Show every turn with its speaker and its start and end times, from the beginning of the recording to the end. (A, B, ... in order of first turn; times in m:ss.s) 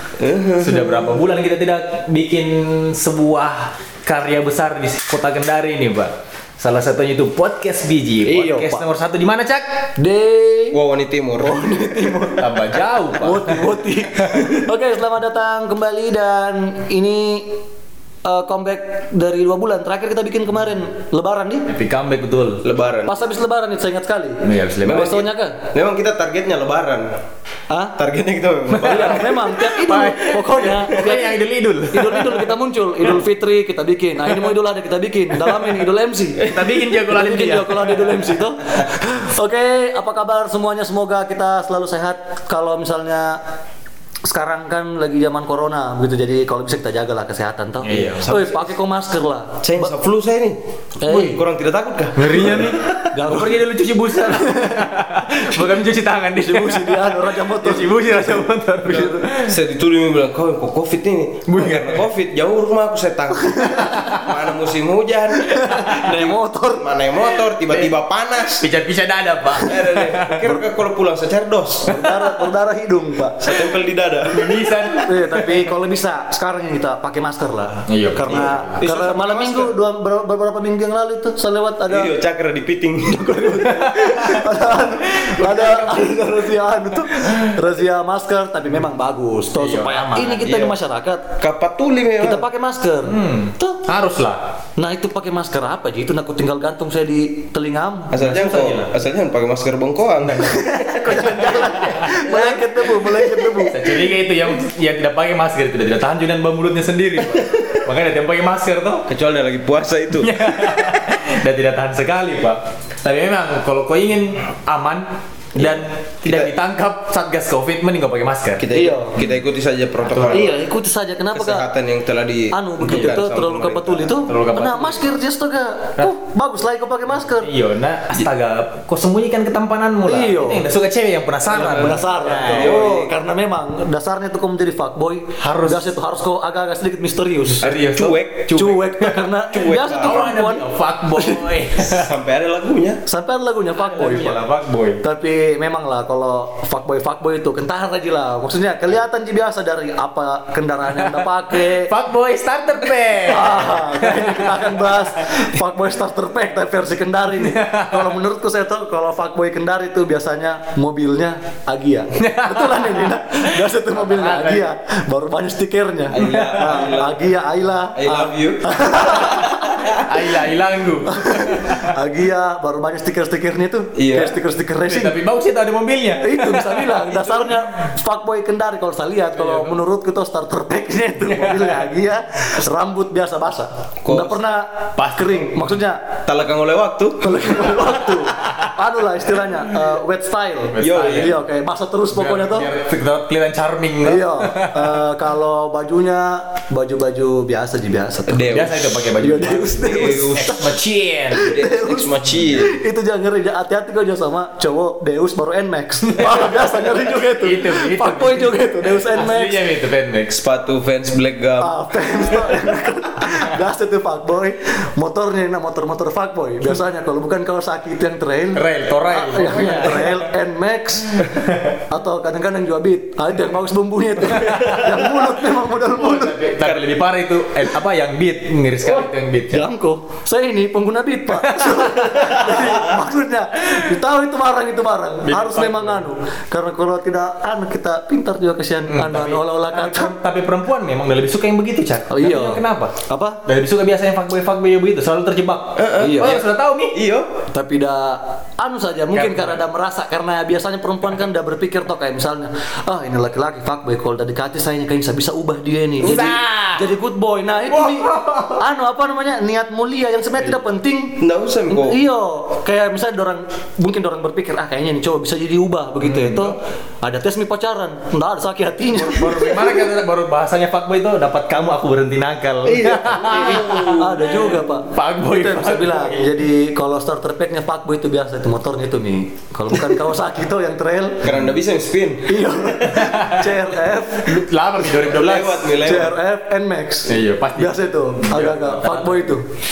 0:00.2-0:01.2 A
0:00.6-0:09.6 B
0:08.2-0:08.8 C
0:10.0-0:10.8 C
0:10.7-0:12.1 A
0:11.4-0:12.5 C
0:12.4-0:13.6 B
0:13.1-0:17.6 C
0:14.2-0:14.5 B
0:18.2-0:21.6 C
0:21.7-0:22.6 B
0:22.6-0:23.2 A
0:23.1-0:25.6 C
0:24.4-0:25.1 B
0:24.8-0:27.1 A
0:27.7-0:28.0 C
0:28.0-0:29.4 A
0:28.7-0:32.5 B
0:28.8-0:31.4 C
0:31.9-0:43.4 C
0:35.4-0:35.7 B
0:36.4-0:38.3 B
0:44.2-0:49.9 C
0:47.8-0:48.3 B
0:47.9-0:48.7 A
0:49.6-0:50.6 A
0:51.0-0:51.4 C
0:51.1-0:51.4 B
0:51.1-0:53.0 A
0:52.2-0:59.6 B
0:53.1-0:54.9 C
0:55.4-0:55.8 C
0:56.3-0:59.3 C
0:58.9-1:08.6 A
1:01.4-1:02.0 B
1:03.4-1:04.2 C
1:03.9-1:04.2 B
1:05.3-1:07.2 C
1:07.7-1:07.9 B
1:08.6-1:10.4 B
1:09.6-1:11.9 A
1:10.4-1:10.6 C
1:11.9-1:13.4 C
1:12.0-1:12.2 B
1:13.4-1:15.0 A
1:14.3-1:15.7 B
1:15.0-1:22.1 C
1:17.9-1:18.8 B
1:18.8-1:19.7 A
1:21.9-1:23.3 A
1:23.1-1:31.4 C
1:23.5-1:24.5 B
1:25.0-1:26.3 B
1:27.1-1:27.5 B
1:29.5-1:30.7 B
1:31.4-1:32.4 A
1:32.2-1:33.8 C
1:33.0-1:34.4 B
1:34.8-1:38.2 C
1:38.1-1:41.0 A
1:38.1-1:38.9 B
1:40.3-1:42.1 B
1:40.4-1:43.9 C
1:42.1-1:43.2 A
1:43.6-1:49.0 B
1:49.1-1:51.1 A
1:50.2-1:58.7 B
1:55.6-1:56.5 A
1:58.6-2:00.6 A
1:58.7-1:59.1 C
2:00.0-2:00.5 B
2:00.3-2:01.7 C
2:01.3-2:04.2 A
2:02.5-2:07.5 C
2:04.2-2:05.0 B
2:07.4-2:12.8 B
2:10.0-2:10.7 C
2:11.5-2:17.8 C
2:12.4-2:13.1 A
2:15.4-2:15.9 B
2:17.6-2:19.2 B
2:17.6-2:18.7 A
2:18.5-2:21.5 C
2:19.5-2:20.3 A
2:19.8-2:22.1 B
2:21.8-2:23.0 A
2:23.1-2:24.4 C
2:23.7-2:25.0 B
2:25.0-2:31.9 C
2:31.0-2:35.0 B
2:33.2-2:49.7 C
2:37.4-2:38.1 B
2:42.2-2:44.6 B
2:46.1-2:47.2 A
2:46.2-2:46.9 B
2:47.9-2:48.6 A
2:49.3-2:49.9 A
2:49.9-2:51.9 B
2:51.1-2:55.2 C
2:53.9-2:54.4 A
2:54.8-2:57.5 B
2:56.2-3:06.0 C
2:59.3-2:59.8 B
3:01.2-3:01.9 B
3:04.0-3:04.4 A
3:05.0-3:05.7 B
3:06.2-3:07.5 A
3:07.2-3:12.7 C
3:08.2-3:08.7 B
3:10.7-3:11.4 B
3:10.8-3:11.4 A
3:12.1-3:15.0 B
3:14.0-3:18.7 C
3:18.3-3:18.8 A
3:18.5-3:21.5 B
3:19.2-3:20.7 C
3:19.8-3:20.6 A
3:21.3-3:29.6 C
3:21.4-3:22.7 A
3:26.0-3:30.3 B
3:30.3-3:31.8 A
3:31.6-3:41.3 C
3:38.5-3:40.2 B
3:41.2-3:41.7 B
3:41.8-3:46.4 C
3:44.3-3:44.9 B
3:45.9-3:49.6 B
3:46.6-3:46.9 A
3:48.8-4:00.2 C
3:51.3-3:52.4 B
3:55.2-3:56.0 B
3:58.9-4:02.9 B
4:02.1-4:03.4 C
4:03.4-4:06.9 B
4:05.8-4:07.3 A
4:06.0-4:06.4 C
4:07.5-4:29.8 C
4:09.1-4:09.6 B
4:16.0-4:16.4 A
4:16.0-4:16.9 B
4:17.7-4:18.6 B
4:21.2-4:22.0 A
4:26.0-4:26.6 B
4:29.0-4:36.3 B
4:32.6-4:34.3 A
4:33.3-4:41.3 C
4:41.2-4:42.4 A
4:42.3-4:44.4 C
4:42.9-4:43.5 B
4:44.2-4:45.7 B
4:45.0-4:46.2 A
4:45.8-4:49.4 C
4:47.0-4:49.3 B